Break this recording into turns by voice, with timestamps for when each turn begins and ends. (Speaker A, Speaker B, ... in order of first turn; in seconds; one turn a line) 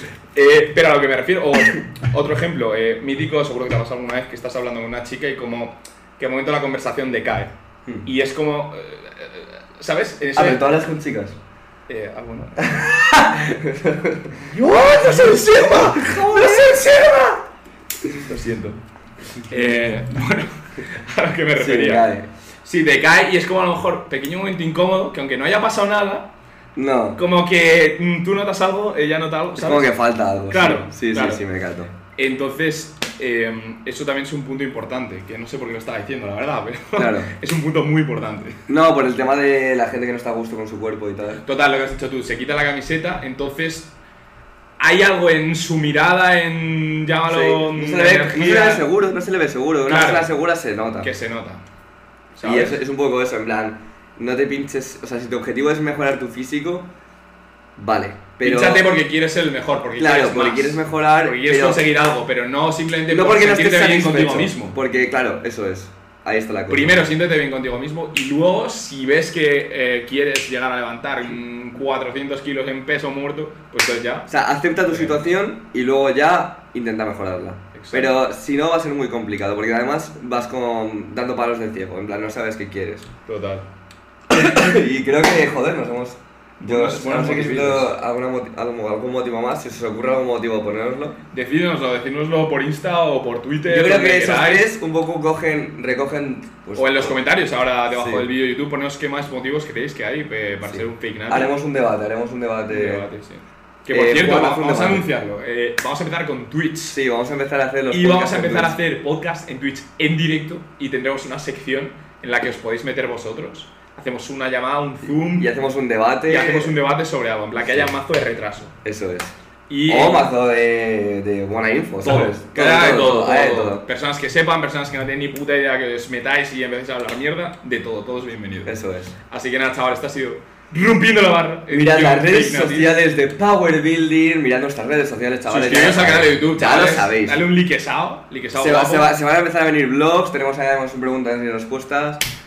Speaker A: 0.3-7.5
Speaker A: 8.0-10.8
Speaker B: 10.3-11.4
Speaker A: 11.9-12.8
Speaker B: 12.6-16.8
Speaker A: 14.4-17.4
Speaker A: 18.1-18.8
Speaker A: 19.5-22.1
Speaker B: 21.5-22.3
Speaker A: 22.6-26.3
Speaker B: 26.8-27.2
Speaker A: 27.2-29.9
Speaker B: 29.6-31.9
Speaker A: 30.5-31.4
Speaker A: 32.1-38.6
Speaker B: 37.0-37.3
Speaker B: 38.7-41.4
Speaker A: 41.4-43.9
Speaker A: 44.8-48.9
Speaker B: 47.3-51.1
Speaker A: 49.9-50.3
Speaker A: 51.0-51.6
Speaker A: 52.3-52.8
Speaker B: 52.4-56.9
Speaker B: 57.8-58.9
Speaker A: 58.4-64.8
Speaker B: 60.0-61.8
Speaker B: 63.1-67.0
Speaker A: 66.7-74.3
Speaker B: 74.3-83.1
Speaker A: 74.9-75.2
Speaker A: 77.7-78.2
Speaker A: 83.2-83.7
Speaker B: 84.3-91.2
Speaker A: 86.6-87.9
Speaker A: 91.3-94.7
Speaker B: 93.7-97.2
Speaker A: 96.8-101.5
Speaker B: 97.9-98.3
Speaker B: 100.6-103.0
Speaker A: 102.7-107.0
Speaker B: 103.9-105.1
Speaker B: 106.9-108.8
Speaker A: 107.9-115.5
Speaker B: 115.3-116.7
Speaker A: 116.3-118.7
Speaker B: 118.8-119.3
Speaker A: 119.7-120.3
Speaker B: 119.9-123.8
Speaker A: 122.0-132.9
Speaker B: 128.6-129.1
Speaker B: 131.7-137.4
Speaker A: 135.5-139.1
Speaker B: 138.6-142.2